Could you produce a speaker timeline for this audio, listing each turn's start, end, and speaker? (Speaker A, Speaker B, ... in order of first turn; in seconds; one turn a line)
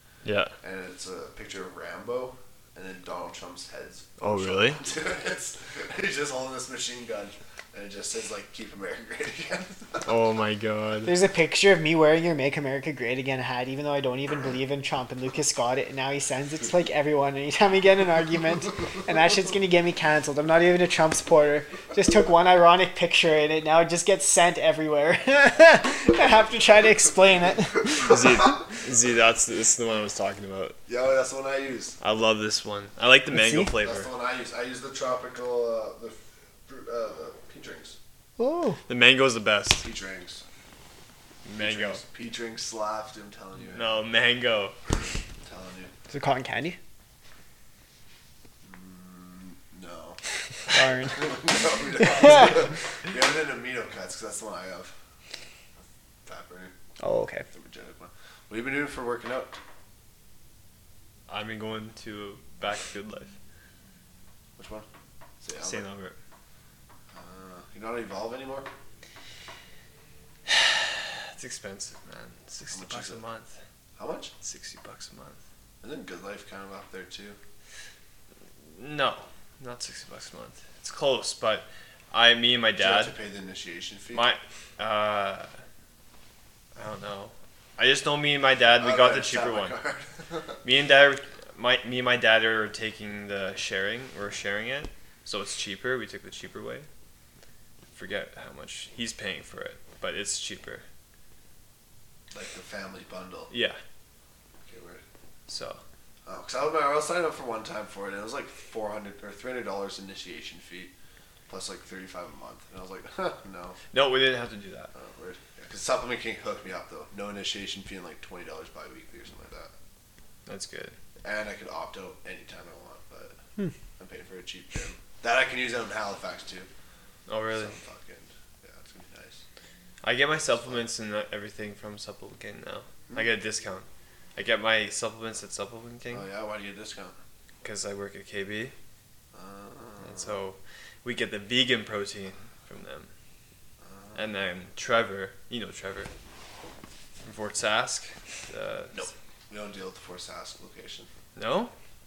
Speaker A: 0.2-0.5
Speaker B: 0.6-10.1
Speaker A: 4.2-4.8
Speaker A: 10.0-11.2
Speaker C: 11.1-28.2
Speaker A: 27.9-30.8
Speaker B: 30.9-32.0
Speaker A: 32.0-34.1
Speaker C: 33.3-33.7
Speaker B: 33.8-38.0
Speaker C: 38.4-38.8
Speaker A: 38.9-39.9
Speaker B: 39.8-40.4
Speaker A: 41.5-42.0
Speaker B: 41.6-44.0
Speaker A: 43.7-44.8
Speaker B: 45.4-45.9
Speaker C: 46.1-46.8
Speaker B: 48.6-50.2
Speaker C: 50.7-51.4
Speaker B: 51.1-55.0
Speaker C: 52.0-52.6
Speaker B: 56.3-56.7
Speaker C: 57.0-57.5
Speaker B: 57.5-59.6
Speaker A: 61.3-63.3
Speaker B: 64.6-64.9
Speaker B: 65.4-65.9
Speaker A: 65.6-66.2
Speaker B: 67.1-68.7
Speaker A: 70.5-73.5
Speaker B: 72.7-73.2
Speaker B: 74.0-74.3
Speaker A: 74.4-75.4
Speaker B: 75.8-77.4
Speaker A: 78.7-83.2
Speaker B: 82.8-84.3
Speaker A: 84.1-85.5
Speaker A: 86.8-89.8
Speaker B: 88.8-90.6
Speaker A: 90.6-96.9
Speaker A: 97.9-100.8
Speaker B: 102.3-103.5
Speaker A: 103.5-103.8
Speaker B: 104.7-105.0
Speaker A: 105.5-105.8
Speaker B: 106.3-110.9
Speaker B: 111.5-113.8
Speaker A: 113.9-114.9
Speaker B: 114.9-119.7
Speaker A: 120.5-121.0
Speaker B: 121.2-123.4
Speaker B: 124.0-126.7
Speaker A: 127.3-127.8
Speaker B: 127.5-129.4
Speaker A: 130.0-136.3
Speaker B: 130.6-130.8
Speaker B: 136.1-137.2
Speaker A: 137.6-138.7
Speaker B: 139.3-140.4
Speaker A: 140.0-143.1
Speaker B: 143.8-144.2
Speaker A: 144.2-146.1
Speaker A: 147.2-149.1
Speaker B: 148.9-151.1
Speaker A: 151.4-151.7